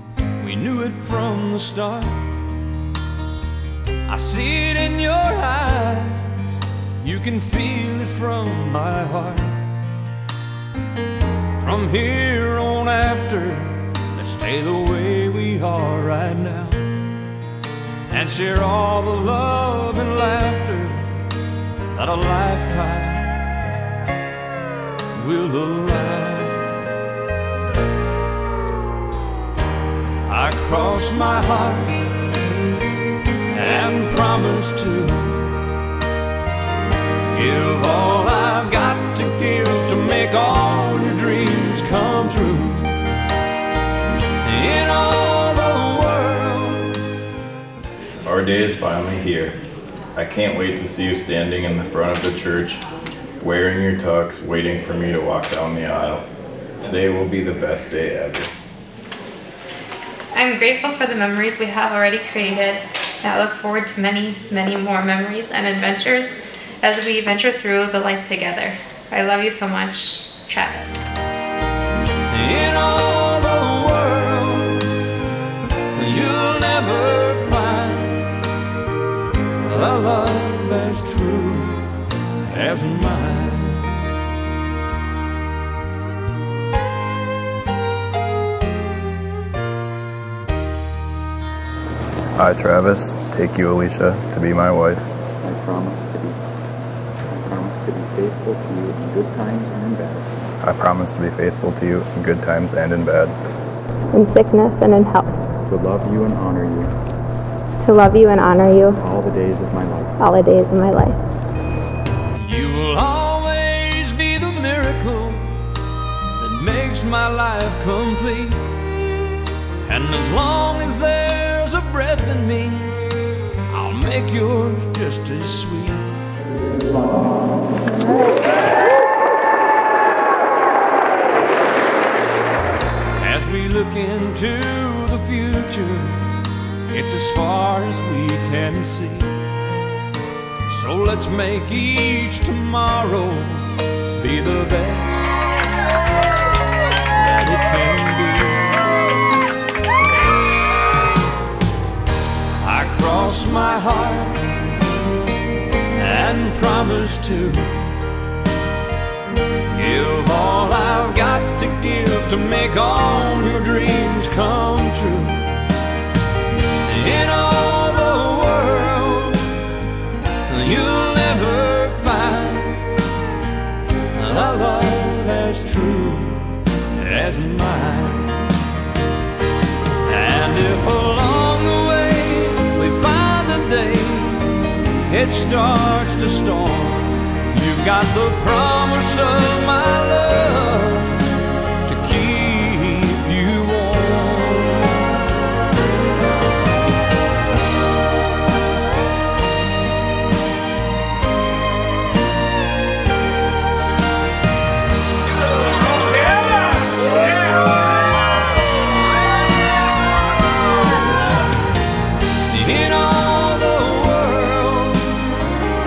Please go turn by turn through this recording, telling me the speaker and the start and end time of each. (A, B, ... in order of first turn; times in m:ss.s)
0:00.4-0:02.4 A
0:04.0-0:09.7 A
0:11.5-0:17.0 A
0:18.1-0:21.2 A
0:21.9-0:23.5 A
0:25.1-0:26.8 A
0:30.2-0:32.2 A
0:33.5-0:35.6 A
0:37.3-0:43.0 A
0:44.4-0:47.0 A
0:48.2-0:49.5 B
0:50.2-0:52.8 B
0:53.4-0:56.2 B
0:56.8-0:58.5 B
1:00.4-1:11.1 C
1:12.3-1:14.9 A
1:15.9-1:18.4 A
1:19.6-1:24.0 A
1:32.4-1:35.1 B
1:35.4-1:36.4 D
1:37.3-1:40.3 D
1:40.6-1:43.4 B
1:44.2-1:45.1 E
1:45.6-1:46.9 D
1:47.9-1:48.9 E
1:49.0-1:50.2 D
1:50.4-1:51.0 E
1:52.3-1:55.7 A
1:56.4-1:58.7 A
1:59.8-2:03.0 A
2:03.7-2:06.3 A
2:13.2-2:16.3 A
2:16.9-2:19.5 A
2:20.7-2:25.4 A
2:27.1-2:28.9 A
2:32.6-2:34.6 A
2:35.9-2:37.9 A
2:39.7-2:45.7 A
2:46.8-2:49.6 A
2:50.4-2:52.9 A
2:54.1-2:58.6 A
3:00.0-3:15.2 A
3:26.1-3:26.9 A
3:32.4-3:35.4 A